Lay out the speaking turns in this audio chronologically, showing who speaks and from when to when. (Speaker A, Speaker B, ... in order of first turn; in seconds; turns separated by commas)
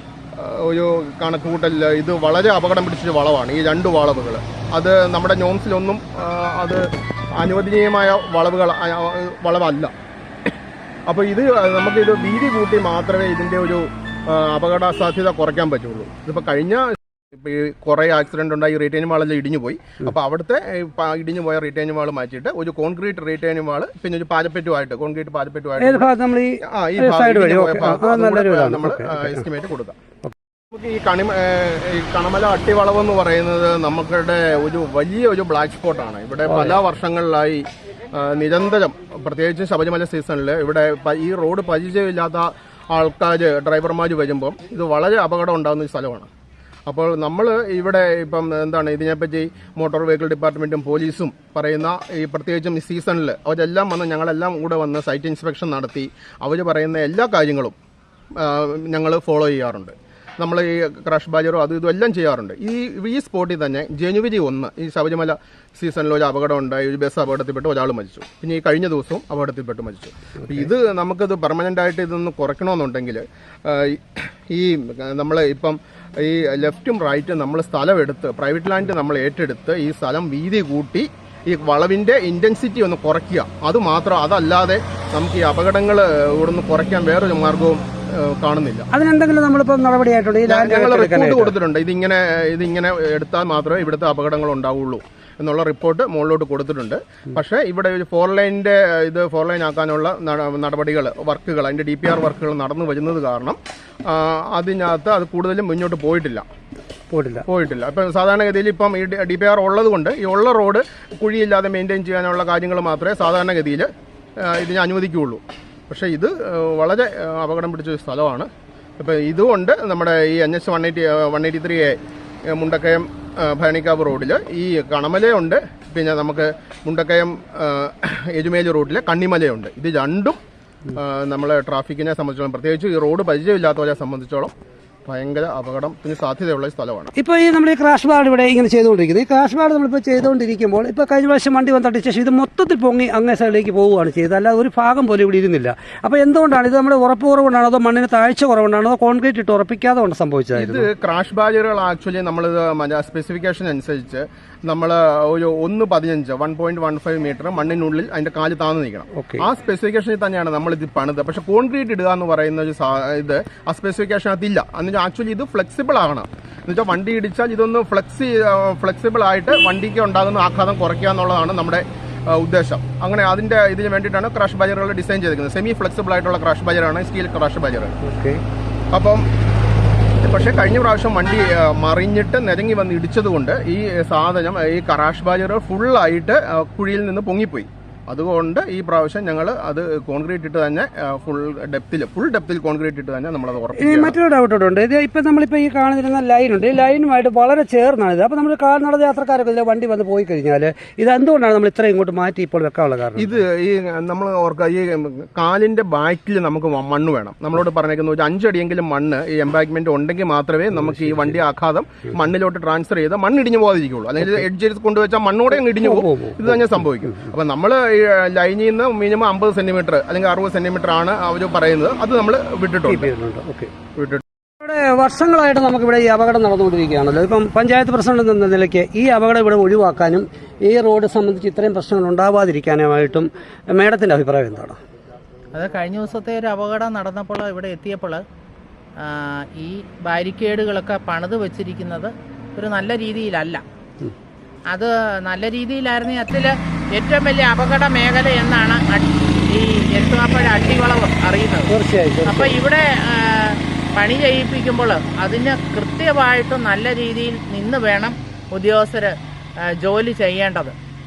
Speaker A: 0.3-9.9, Speaker A: 11.1-26.1, Speaker B: 25.8-29.4, Speaker A: 26.6-30.0, Speaker A: 30.7-46.3, Speaker B: 36.5-36.8, Speaker A: 46.9-57.8, Speaker A: 58.4-88.9, Speaker B: 88.9-91.5, Speaker A: 90.5-106.5, Speaker B: 107.1-107.5, Speaker A: 107.5-122.0, Speaker A: 122.5-130.4, Speaker A: 130.9-134.5, Speaker A: 135.1-137.1, Speaker B: 137.2-150.9, Speaker A: 150.6-178.0, Speaker B: 159.1-159.4, Speaker B: 178.0-178.4, Speaker A: 178.9-179.2, Speaker A: 180.2-194.2, Speaker B: 193.8-203.4, Speaker A: 203.2-223.1, Speaker B: 215.6-216.6, Speaker B: 222.9-223.7, Speaker A: 224.0-224.2, Speaker B: 224.6-234.8, Speaker C: 235.5-238.2, Speaker C: 239.0-243.6, Speaker C: 244.7-251.7, Speaker B: 251.7-252.6, Speaker C: 252.2-260.8